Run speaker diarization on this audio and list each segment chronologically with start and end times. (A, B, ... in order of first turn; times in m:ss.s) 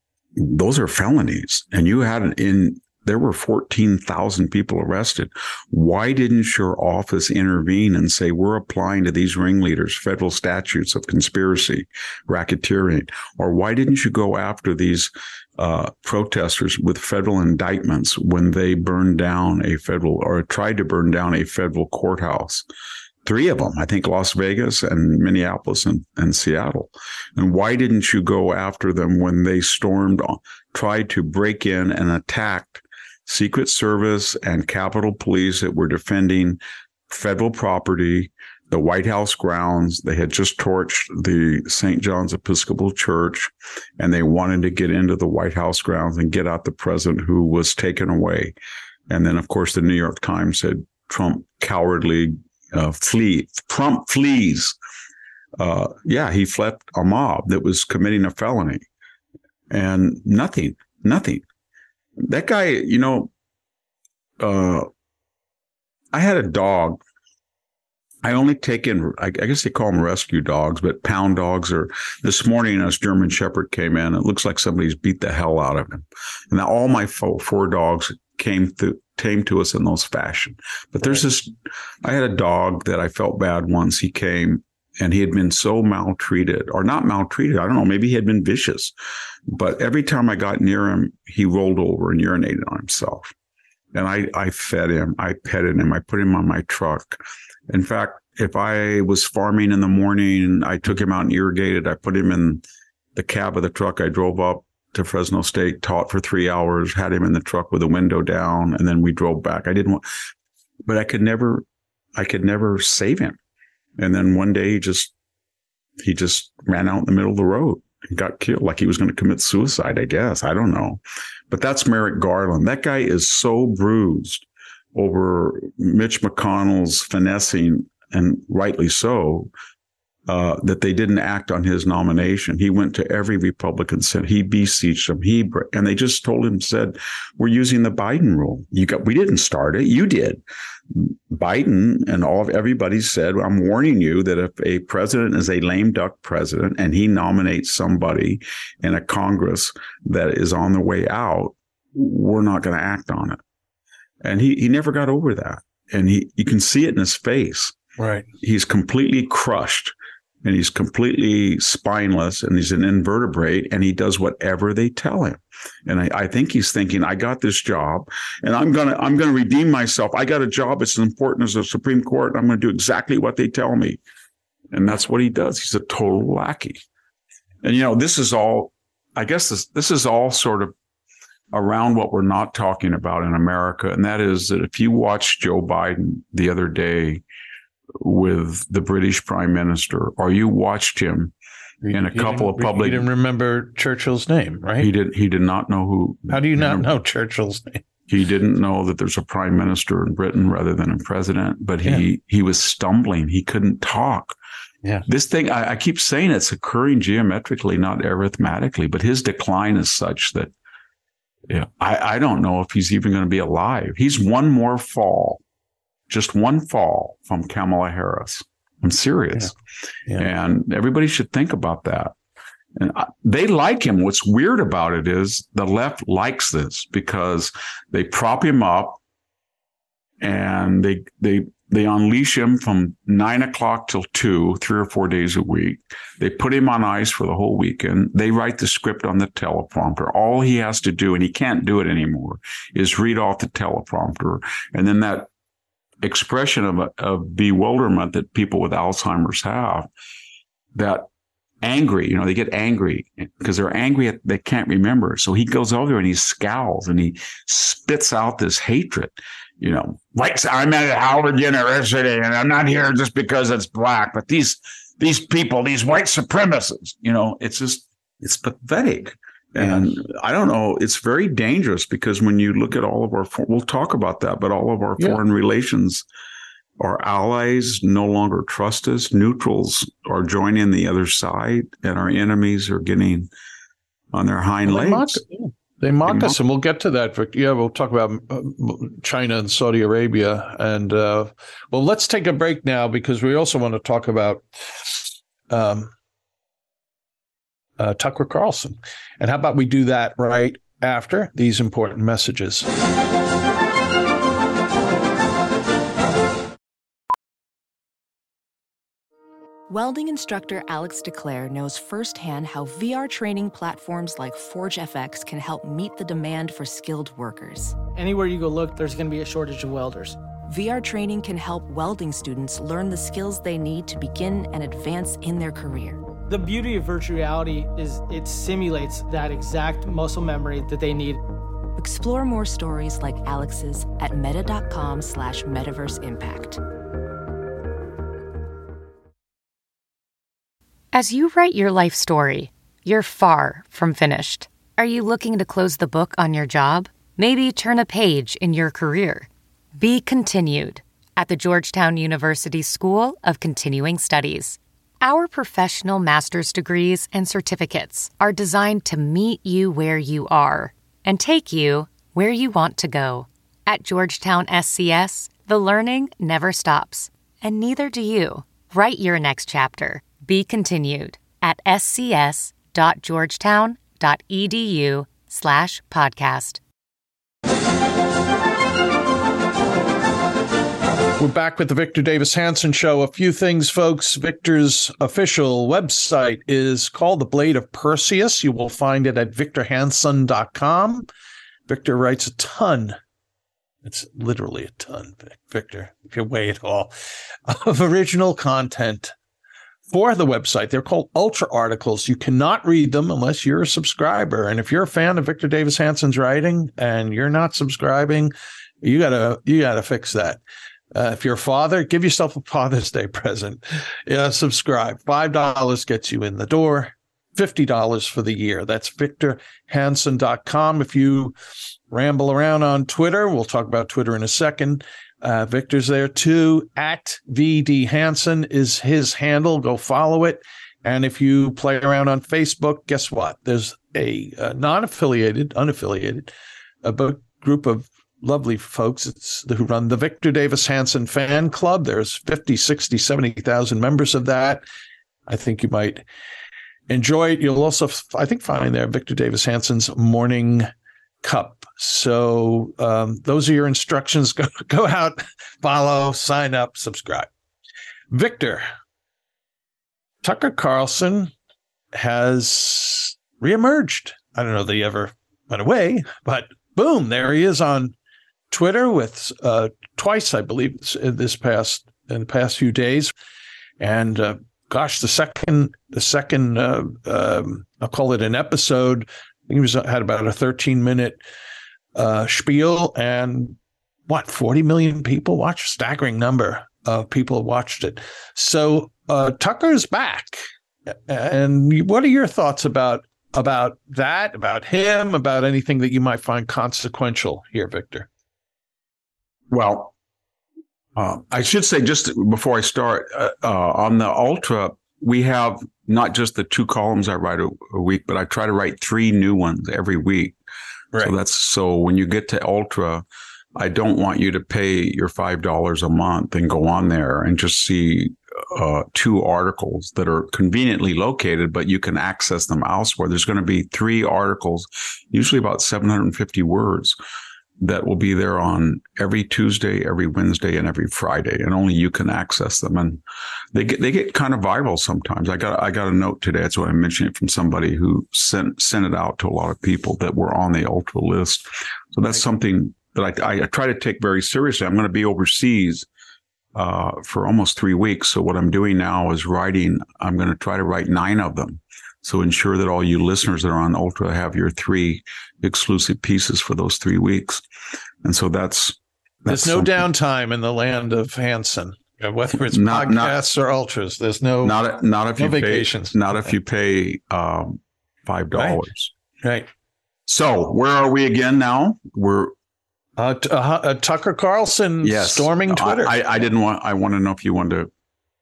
0:00.4-0:22.6 A
0:23.2-0:48.5 A
0:49.1-0:54.8 A
0:55.6-0:58.8 A
0:59.7-1:01.4 A
1:02.2-1:03.3 A
1:04.4-1:04.9 A
1:06.1-1:07.0 A
1:08.2-1:28.9 A
1:29.5-1:33.3 A
1:33.9-1:42.6 A
1:43.1-1:50.0 A
1:50.8-1:53.4 A
1:54.0-1:55.1 A
1:56.0-2:09.5 A
2:10.2-2:33.4 A
2:34.2-2:37.7 A
2:38.0-2:38.3 B
2:38.4-2:54.0 A
2:54.7-2:56.8 A
2:57.6-3:00.7 A
3:01.5-3:07.2 A
3:08.0-3:11.3 A
3:11.8-3:14.9 B
3:11.9-3:13.1 A
3:14.8-3:16.9 A
3:16.3-3:17.8 B
3:18.1-3:24.4 A
3:25.0-3:30.5 A
3:31.5-3:35.4 A
3:36.1-3:39.6 A
3:40.1-3:42.1 A
3:42.8-3:49.0 A
3:50.2-4:05.3 A
4:06.0-4:09.9 A
4:10.7-4:11.1 A
4:11.6-4:36.0 A
4:29.6-4:29.9 B
4:36.8-4:43.3 A
4:44.1-4:45.2 A
4:44.6-4:55.9 B
4:46.0-4:46.4 A
4:57.8-5:02.7 B
5:09.7-5:17.8 C
5:17.9-5:20.2 D
5:20.5-5:26.0 C
5:26.3-5:31.2 D
5:31.8-5:36.6 C
5:40.9-6:16.6 E
6:21.2-6:31.1 B
6:31.7-6:33.0 B
6:33.8-6:36.9 B
6:37.5-6:39.1 B
6:39.9-6:50.4 B
6:50.9-7:01.3 B
7:01.9-7:16.3 B
7:16.8-7:24.6 B
7:25.3-7:26.0 B
7:26.9-7:30.7 B
7:31.2-7:37.3 B
7:38.1-7:38.6 B
7:40.2-7:41.3 B
7:41.9-7:47.9 B
7:48.5-7:53.1 B
7:53.8-8:01.2 B
8:01.9-8:03.6 B
8:04.1-8:18.1 B
8:19.5-8:19.9 A
8:21.0-8:30.4 A
8:31.0-8:47.0 A
8:47.6-8:53.0 A
8:53.5-9:05.9 A
9:06.5-9:17.4 A
9:18.0-9:19.9 A
9:19.3-9:24.6 B
9:22.5-9:23.2 A
9:24.4-9:28.9 A
9:25.2-9:26.3 B
9:28.4-9:28.6 B
9:30.1-9:32.3 A
9:33.0-9:36.0 B
9:34.8-9:37.7 A